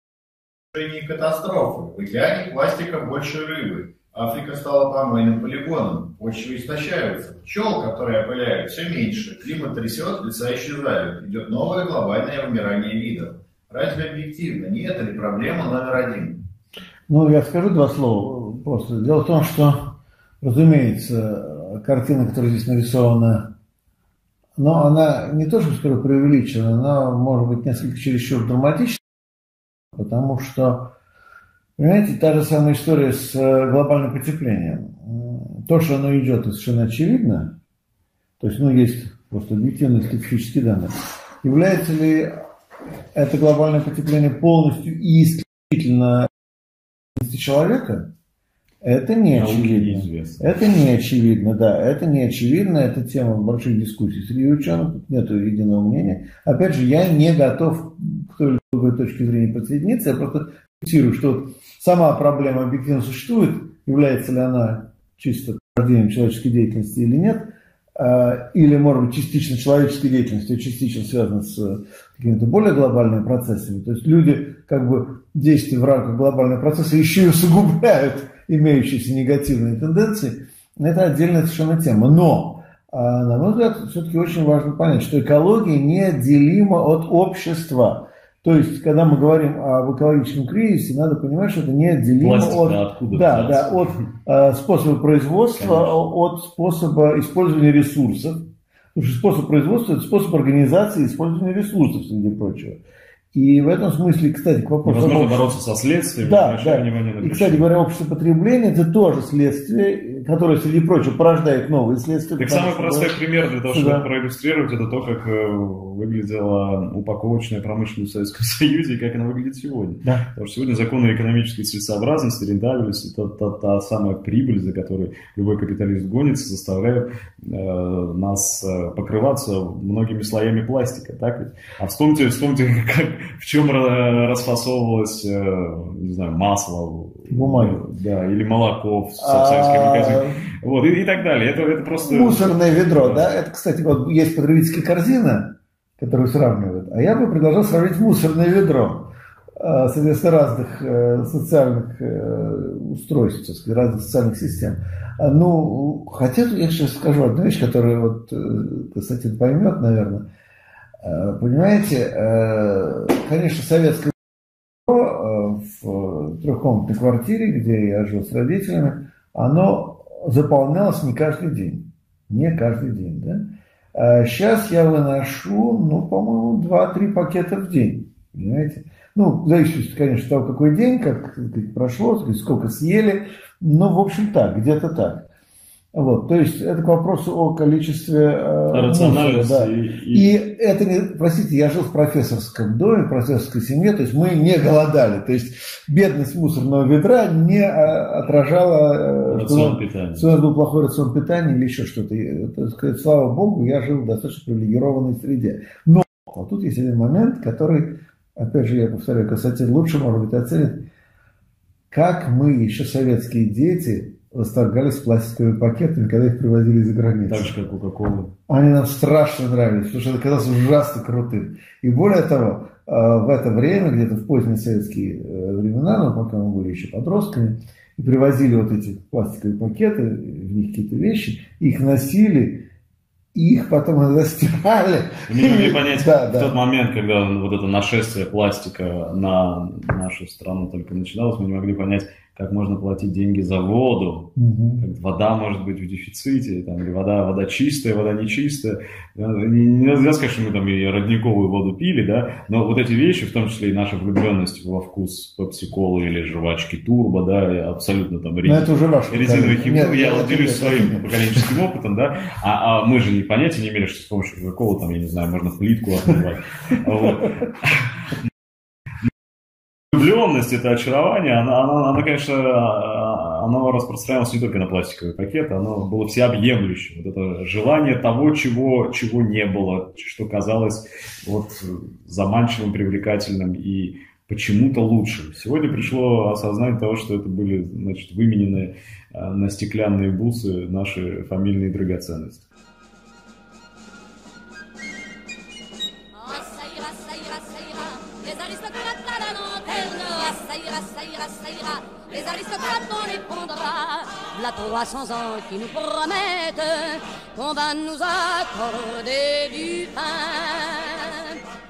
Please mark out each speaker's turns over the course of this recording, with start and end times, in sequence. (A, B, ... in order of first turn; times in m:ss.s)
0:00.7-0:16.4 A
0:17.1-0:23.5 B
0:24.6-0:29.0 B
0:29.9-0:30.9 B
0:31.8-0:37.6 B
0:38.4-0:42.3 B
0:43.1-0:46.3 B
0:47.2-0:48.1 B
0:48.8-1:42.8 B
0:49.3-0:50.6 C
1:32.2-1:34.1 C
1:35.5-1:36.0 C
1:43.3-1:45.5 B
1:44.8-1:47.7 C
1:46.2-1:54.1 B
1:52.4-2:23.4 C
2:17.3-2:17.9 B
2:19.2-2:20.4 B
2:22.0-2:40.2 B
2:41.0-2:44.1 B
2:44.9-3:05.3 B
3:05.9-3:30.9 B
3:08.7-3:10.4 C
3:19.3-3:20.4 C
3:31.9-3:37.6 B
3:37.3-3:38.4 C
3:38.5-3:52.7 B
3:53.3-3:56.5 B
3:55.2-4:27.9 C
4:04.4-4:04.8 B
4:18.4-4:21.4 B
4:29.9-4:52.5 C
4:56.1-5:11.4 D